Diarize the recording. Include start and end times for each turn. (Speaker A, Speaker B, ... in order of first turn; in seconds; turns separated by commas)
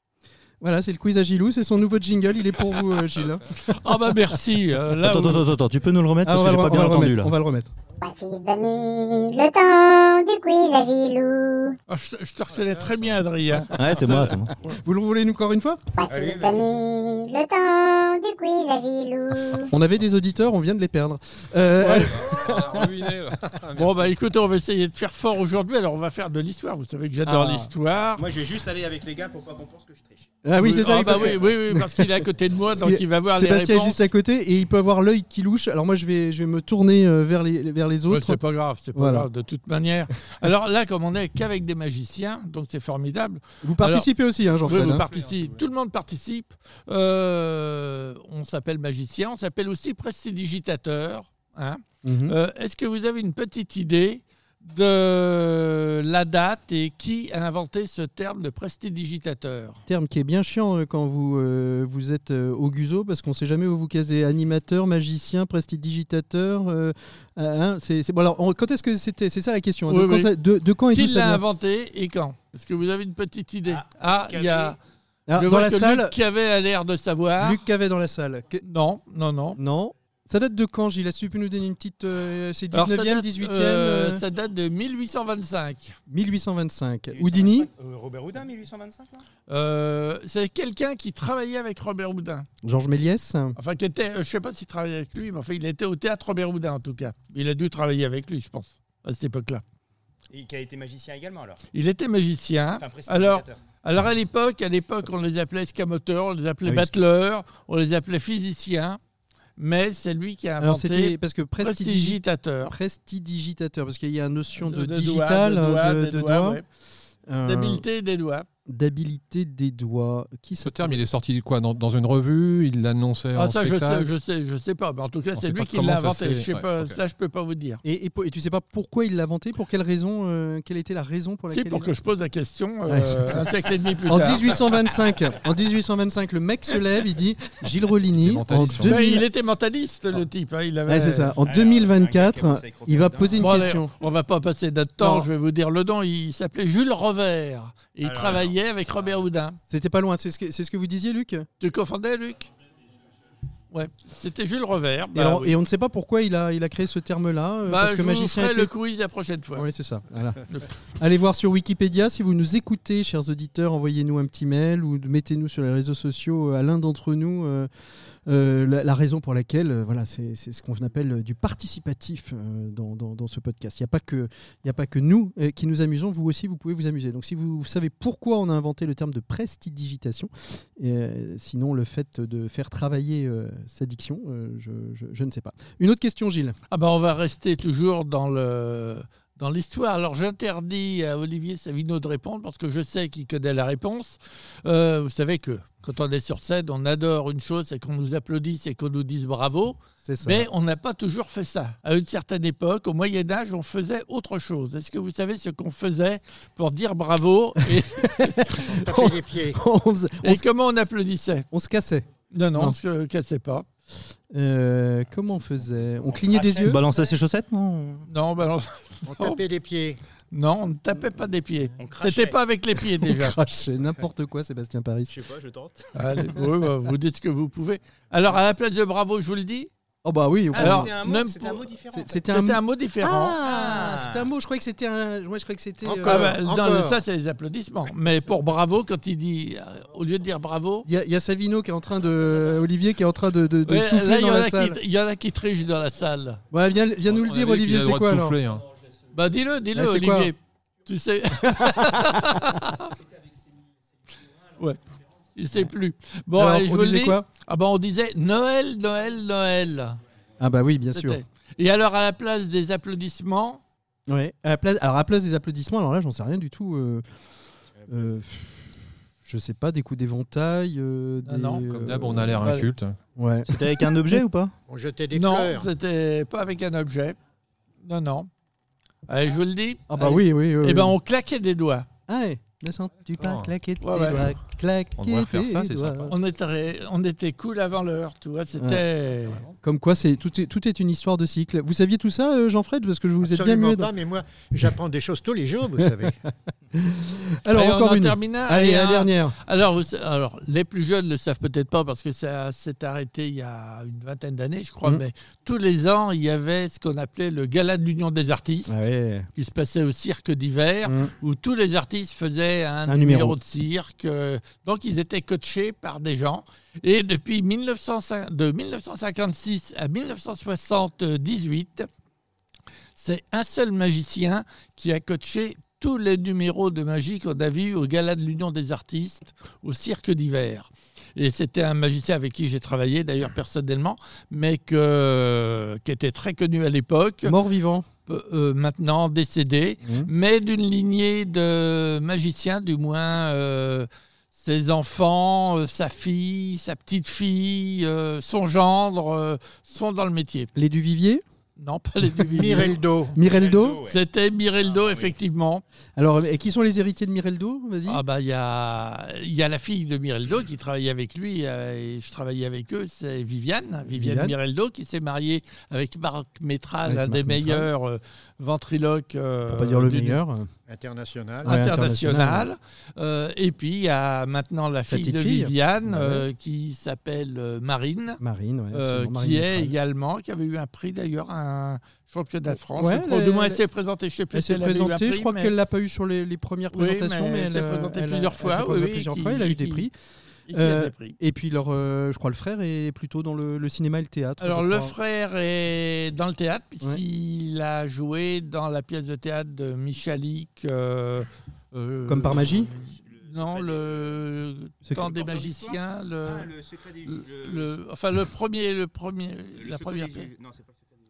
Speaker A: 0.6-3.8, Speaker B: 3.7-5.5, Speaker C: 5.0-7.3, Speaker A: 6.2-7.7, Speaker D: 8.0-11.8, Speaker B: 11.9-14.8, Speaker C: 13.7-14.5, Speaker A: 14.8-15.8, Speaker D: 15.9-19.7, Speaker E: 16.1-16.6, Speaker A: 19.6-22.8, Speaker F: 21.8-24.1, Speaker B: 23.8-28.3, Speaker A: 27.2-27.7, Speaker E: 28.1-30.4, Speaker A: 30.4-32.2, Speaker B: 30.6-34.0, Speaker A: 32.8-38.4, Speaker B: 38.1-44.1, Speaker A: 38.9-39.3, Speaker A: 43.6-45.0, Speaker B: 44.6-59.8, Speaker A: 52.0-52.3, Speaker A: 59.9-71.4, Speaker B: 69.9-70.3, Speaker B: 70.9-74.8, Speaker E: 73.7-74.8, Speaker A: 75.3-76.1, Speaker B: 75.3-77.6, Speaker A: 77.4-78.6, Speaker B: 78.6-79.6, Speaker A: 79.5-84.2, Speaker B: 82.7-86.0, Speaker A: 86.1-87.7, Speaker E: 87.1-89.2, Speaker B: 89.5-92.5, Speaker A: 92.6-93.5, Speaker B: 93.6-99.6, Speaker E: 100.3-101.6, Speaker B: 101.7-109.0, Speaker E: 102.8-103.6, Speaker A: 106.6-106.9, Speaker B: 109.6-112.7, Speaker A: 110.6-116.6, Speaker B: 114.5-116.7, Speaker A: 117.3-117.8, Speaker B: 117.4-118.5, Speaker A: 118.7-121.0, Speaker F: 120.6-124.1, Speaker B: 123.3-127.8, Speaker F: 125.3-127.0, Speaker A: 127.8-131.9, Speaker B: 131.5-134.6, Speaker A: 132.9-133.5, Speaker A: 134.0-139.2, Speaker F: 138.2-139.0, Speaker B: 138.8-141.4, Speaker A: 140.8-143.9, Speaker E: 141.4-143.5, Speaker B: 143.4-149.6, Speaker A: 145.0-145.3, Speaker E: 148.0-149.2, Speaker A: 149.7-151.5, Speaker B: 151.6-152.5, Speaker B: 153.7-155.6, Speaker A: 155.1-158.7, Speaker B: 157.7-159.7, Speaker A: 159.5-160.4, Speaker B: 160.5-160.7, Speaker A: 160.9-167.7, Speaker A: 168.2-186.6, Speaker B: 186.7-208.5, Speaker A: 200.0-200.5, Speaker A: 208.0-210.4, Speaker G: 208.7-209.6, Speaker B: 210.2-211.5, Speaker A: 211.5-212.8, Speaker B: 212.3-213.7, Speaker A: 214.3-216.8, Speaker E: 216.0-217.1, Speaker C: 216.6-218.1, Speaker B: 218.1-219.4, Speaker G: 219.1-220.0, Speaker B: 220.3-223.4, Speaker E: 221.8-222.4, Speaker A: 223.0-225.1, Speaker E: 225.1-225.9, Speaker B: 225.9-229.7, Speaker A: 230.0-230.9, Speaker E: 230.5-232.1, Speaker B: 230.6-233.4, Speaker A: 231.9-236.3, Speaker E: 233.4-234.2, Speaker G: 235.8-237.0, Speaker B: 236.0-240.9, Speaker A: 240.8-244.8, Speaker B: 243.7-246.4, Speaker A: 246.5-248.4, Speaker F: 247.1-248.6, Speaker B: 249.1-252.9, Speaker A: 249.7-250.3, Speaker A: 251.6-251.9, Speaker B: 254.6-254.8, Speaker B: 255.3-260.0, Speaker A: 256.3-257.2, Speaker A: 260.4-261.2, Speaker B: 260.9-263.6, Speaker A: 264.1-267.1, Speaker A: 267.9-268.7, Speaker A: 269.2-272.5, Speaker B: 271.2-271.7, Speaker F: 271.7-273.0, Speaker B: 272.3-272.7, Speaker A: 273.1-274.2, Speaker C: 273.5-274.5, Speaker G: 274.7-275.7, Speaker B: 275.1-277.2, Speaker B: 277.8-278.3, Speaker B: 279.1-281.9, Speaker A: 279.9-281.0, Speaker A: 282.1-286.1, Speaker F: 283.2-283.5, Speaker B: 283.8-284.3, Speaker F: 285.0-286.1, Speaker B: 286.1-289.4, Speaker A: 288.6-288.8, Speaker A: 289.6-293.9, Speaker G: 293.2-296.2, Speaker A: 296.7-299.4, Speaker B: 297.5-308.7, Speaker A: 308.7-309.3, Speaker B: 309.3-321.9, Speaker A: 310.9-311.1, Speaker A: 312.9-313.4, Speaker B: 322.9-337.3, Speaker A: 337.2-337.9, Speaker B: 338.1-350.5, Speaker A: 339.8-340.1, Speaker A: 350.5-351.2, Speaker B: 351.6-352.8, Speaker G: 352.3-353.1, Speaker A: 353.1-353.8, Speaker E: 353.1-354.0, Speaker B: 353.8-355.6, Speaker E: 354.6-355.2, Speaker A: 356.0-358.0, Speaker B: 357.9-370.2, Speaker A: 363.9-364.3, Speaker A: 366.9-367.7, Speaker A: 369.5-370.5, Speaker G: 370.7-371.6, Speaker A: 371.4-372.5, Speaker B: 371.4-378.2, Speaker A: 374.9-376.2, Speaker A: 378.2-379.7, Speaker B: 378.7-385.5, Speaker A: 382.8-383.6, Speaker A: 384.3-389.9, Speaker B: 386.7-389.9, Speaker B: 390.5-391.2, Speaker A: 390.5-394.9, Speaker B: 394.4-410.3, Speaker A: 402.1-402.7, Speaker E: 402.7-404.1, Speaker E: 405.0-407.8, Speaker E: 409.5-410.9